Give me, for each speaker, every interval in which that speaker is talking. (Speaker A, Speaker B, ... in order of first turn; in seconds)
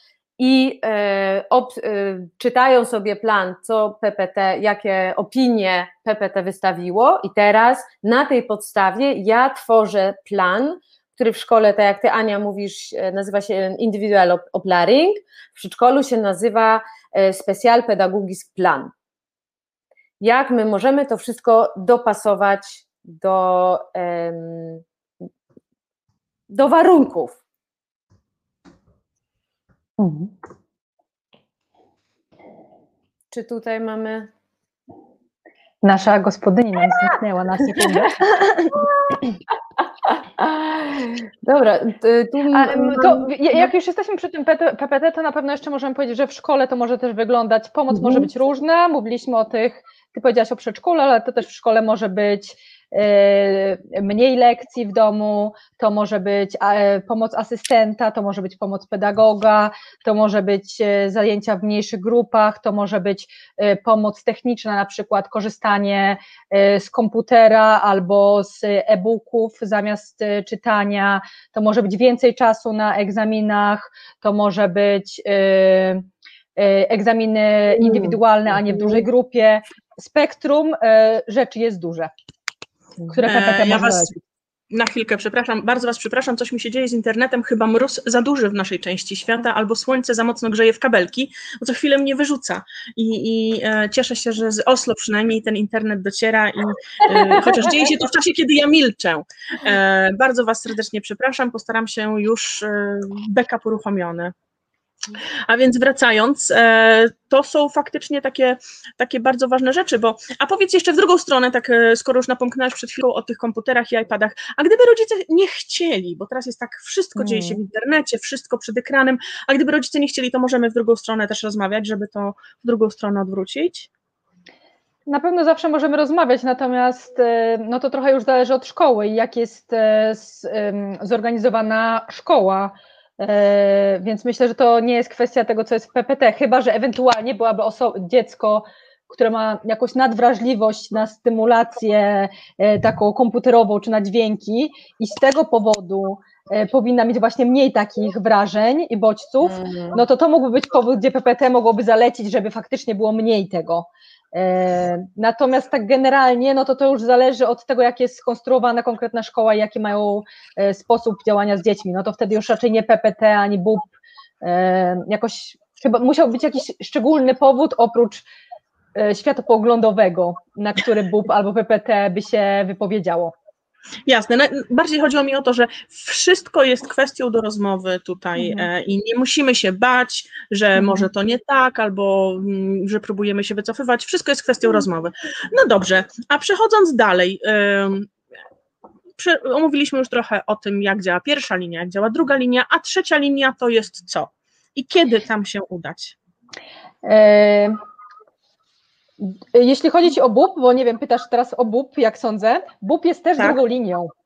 Speaker A: 0.4-18.9, 20.2-24.8, 26.5-27.4, 33.3-34.3, 37.7-38.1, 38.8-39.2, 40.0-43.7, 47.9-48.3, 77.8-79.0, 149.4-150.0
Speaker B: 30.0-30.3, 35.8-38.8, 42.5-82.1, 83.1-84.2, 117.2-117.6, 125.1-163.9, 164.4-168.2, 168.9-173.3, 178.4-178.7, 180.8-181.1, 197.0-197.8, 199.2-204.1
Speaker C: 83.2-84.1, 84.7-104.3, 105.5-123.9, 174.1-188.1, 189.2-196.2